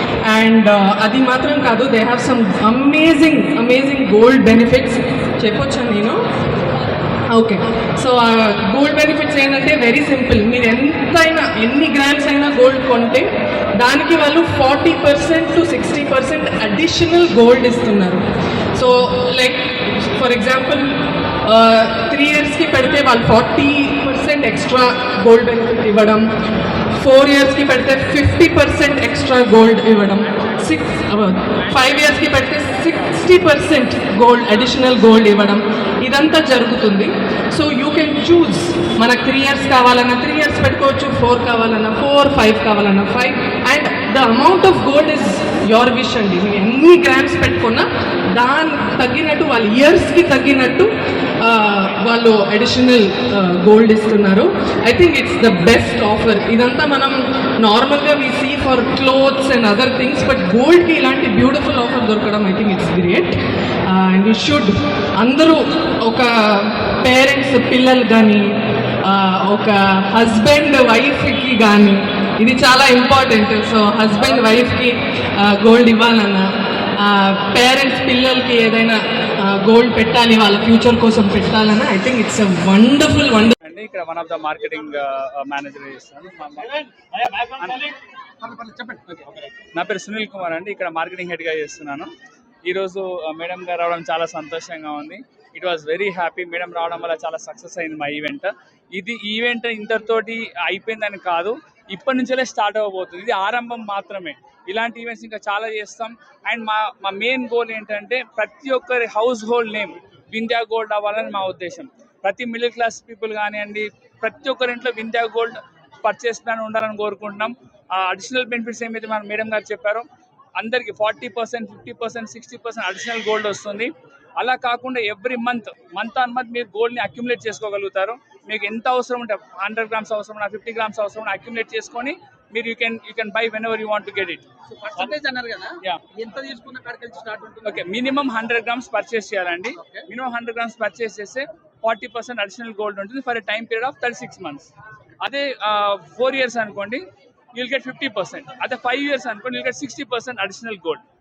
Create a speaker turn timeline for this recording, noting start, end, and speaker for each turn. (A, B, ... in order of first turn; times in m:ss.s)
0:00.2-0:06.2 A
0:07.3-0:18.2 A
0:18.7-0:26.3 A
0:26.9-0:50.9 A
0:51.4-1:08.4 A
1:09.0-1:16.5 A
1:17.0-1:23.5 A
1:23.6-1:26.7 B
1:27.6-1:27.9 B
1:28.4-1:29.2 C
1:29.7-1:32.1 B
1:32.7-2:00.0 B
2:00.6-2:14.4 B
2:14.7-2:17.8 C
2:17.6-2:24.7 B
2:19.8-2:20.0 C
2:25.2-2:27.0 B
2:27.5-2:31.0 B